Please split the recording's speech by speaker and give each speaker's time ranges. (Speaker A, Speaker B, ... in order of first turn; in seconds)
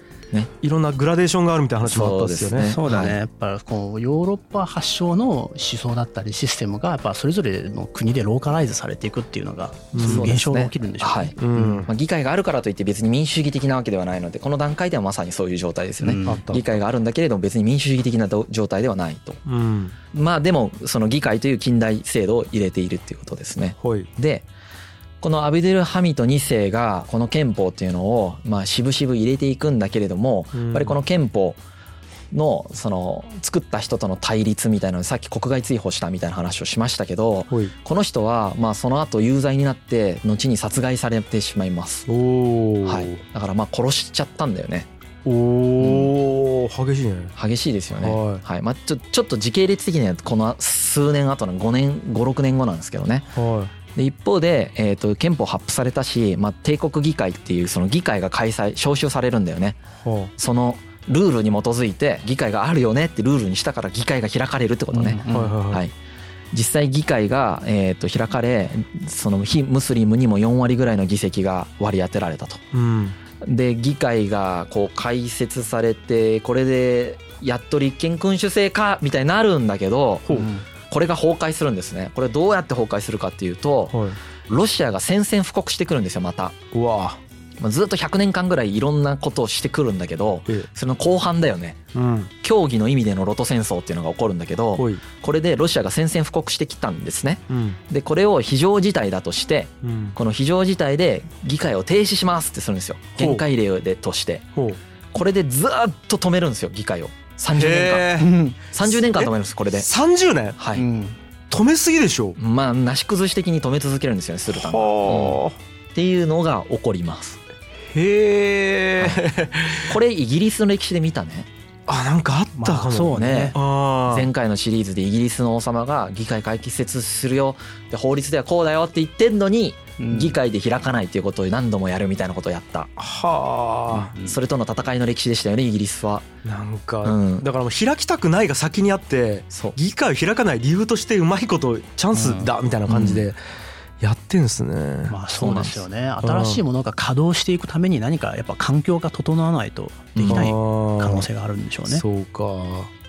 Speaker A: 0.6-2.8, 9.9-10.4, 11.4-11.9, 16.2-16.6, 19.4-19.9, 23.8-24.1, 30.5-31.0, 42.1-43.2, 45.2-47.3, 47.9-48.4, 53.3-53.7, 60.0-60.3, 65.2-65.8, 72.7-73.2, 83.9-84.2, 86.7-87.2, 91.9-92.3, 94.8-95.0, 97.5-97.8, 99.8-100.2, 103.2-103.4, 107.5-110.6, 111.5-112.3, 114.5-115.5, 117.8-120.0, 121.9-124.3, 133.0-134.1, 136.4-143.4, 144.0-145.2, 146.2-146.6, 150.3-151.3, 151.8-152.9
Speaker B: 1.8-3.2, 9.9-19.4, 20.1-24.4, 25.2-31.6, 32.3-42.1, 42.8-44.9, 45.8-46.1, 47.4-53.3, 53.9-59.8, 60.4-65.9, 66.5-72.6, 73.4-80.3, 80.9-86.6, 87.6-91.8, 92.4-104.5, 105.1-108.2, 108.7-109.9, 110.6-110.8, 112.4-115.4, 115.9-117.4, 119.9-121.5, 123.0-132.9, 134.2-136.3, 137.0-137.4, 139.5-139.8, 142.9-143.3, 145.4-145.8, 150.1-150.5
Speaker C: 2.6-11.8, 16.0-16.5, 64.9-65.6, 80.3-80.6, 108.2-108.6, 110.7-111.2, 122.5-123.5, 130.0-130.3, 133.9-134.4, 142.1-142.5, 145.1-152.0